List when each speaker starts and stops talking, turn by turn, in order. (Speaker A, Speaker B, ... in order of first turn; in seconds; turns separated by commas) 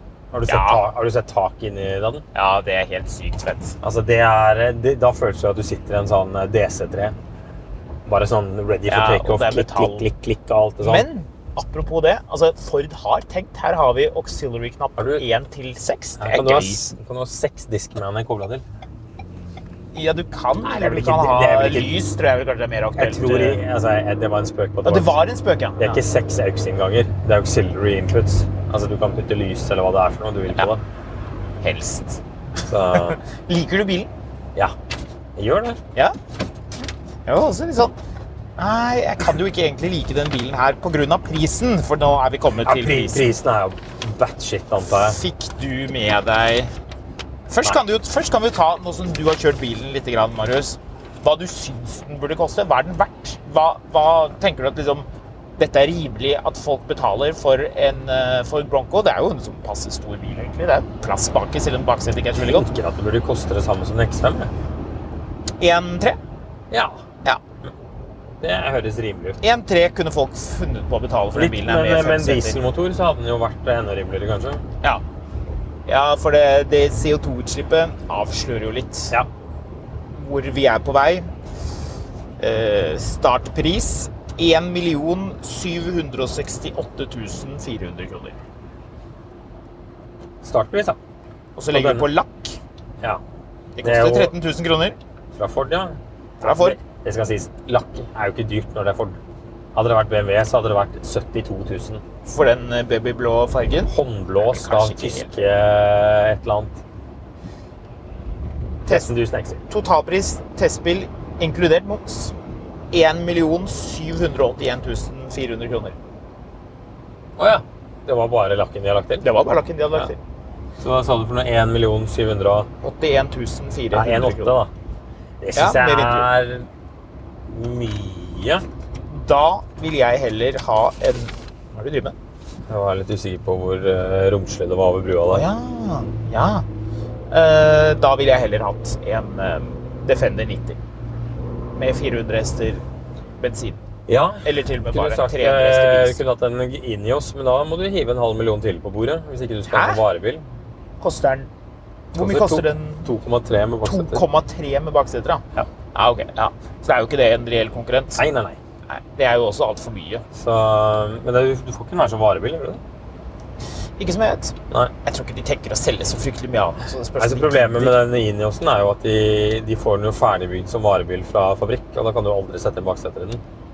Speaker A: 0.3-2.2, Speaker B: 0.5-0.8, Speaker B: 2.3-3.8, Speaker A: 3.8-7.2, Speaker A: 8.1-11.1, Speaker B: 8.9-10.1, Speaker B: 10.8-16.8, Speaker A: 15.0-15.2, Speaker A: 16.2-18.6, Speaker B: 19.9-23.6, Speaker A: 20.6-21.9, Speaker A: 22.9-25.2, Speaker B: 24.8-26.0, Speaker A: 25.8-30.8, Speaker B: 31.6-32.2, Speaker A: 32.7-33.2, Speaker B: 32.9-34.1, Speaker A: 35.4-35.8, Speaker B: 37.2-37.9, Speaker B: 38.6-43.2, Speaker A: 42.6-45.2, Speaker B: 44.9-46.7, Speaker B: 47.5-55.0, Speaker B: 55.6-62.7, Speaker A: 62.3-64.5, Speaker B: 65.6-66.2, Speaker A: 66.7-67.0, Speaker A: 68.4-69.4, Speaker B: 69.4-72.6, Speaker A: 71.3-74.6, Speaker B: 75.9-79.2, Speaker B: 80.1-81.3, Speaker B: 82.4-88.3, Speaker A: 90.4-91.0, Speaker B: 91.5-92.6, Speaker A: 91.7-92.1, Speaker B: 93.8-95.0, Speaker A: 93.8-94.3, Speaker A: 95.3-99.2, Speaker B: 96.4-96.8, Speaker A: 99.7-102.0, Speaker B: 102.2-105.3, Speaker A: 103.9-106.8, Speaker B: 108.8-109.1, Speaker A: 108.8-109.6, Speaker B: 109.7-112.3, Speaker B: 112.9-115.9, Speaker A: 117.4-119.3, Speaker B: 119.2-120.2, Speaker A: 120.8-122.7, Speaker B: 122.8-124.5, Speaker A: 123.9-124.7, Speaker A: 125.4-126.7, Speaker B: 125.5-126.3, Speaker A: 127.5-128.6, Speaker B: 129.1-132.1, Speaker A: 132.7-135.5, Speaker B: 135.3-136.7, Speaker B: 137.3-140.8, Speaker B: 141.7-142.8, Speaker B: 143.4-143.8, Speaker A: 144.1-150.4, Speaker B: 144.4-146.2, Speaker B: 149.7-150.0, Speaker B: 151.0-151.5, Speaker B: 152.1-153.1, Speaker A: 152.1-154.2, Speaker B: 153.8-158.2, Speaker A: 158.2-158.6, Speaker B: 158.9-160.2, Speaker A: 160.3-162.8, Speaker B: 164.0-168.0, Speaker A: 167.2-173.4